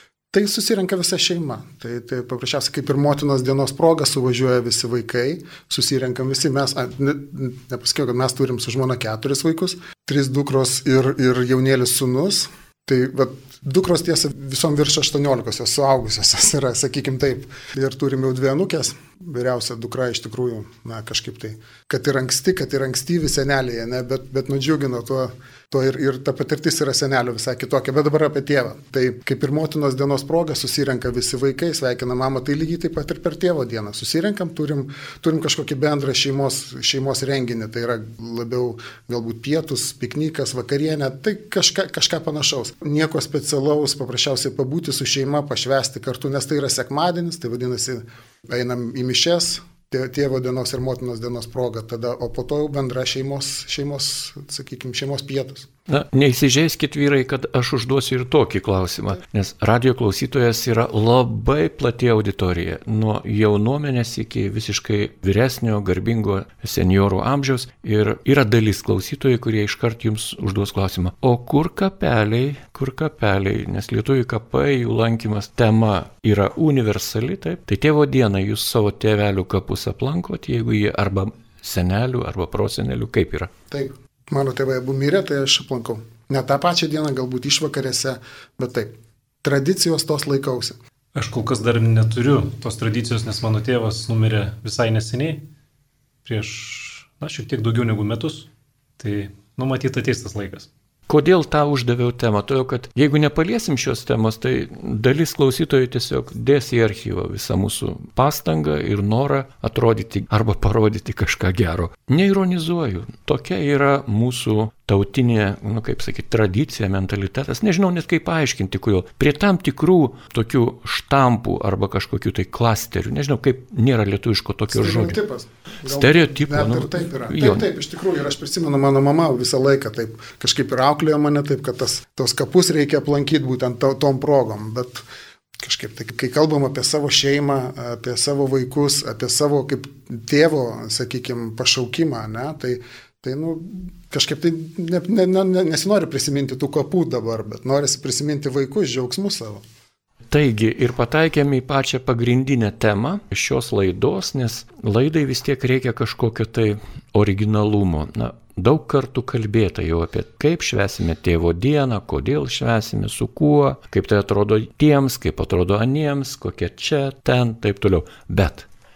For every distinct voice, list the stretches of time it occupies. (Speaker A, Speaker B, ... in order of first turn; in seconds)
Speaker A: 0.3-55.7, 83.7-90.8, 124.7-135.0, 135.6-149.6
Speaker B: 55.9-83.5, 101.1-125.2, 125.8-127.7, 150.3-168.7
Speaker C: 91.1-95.4, 96.2-100.7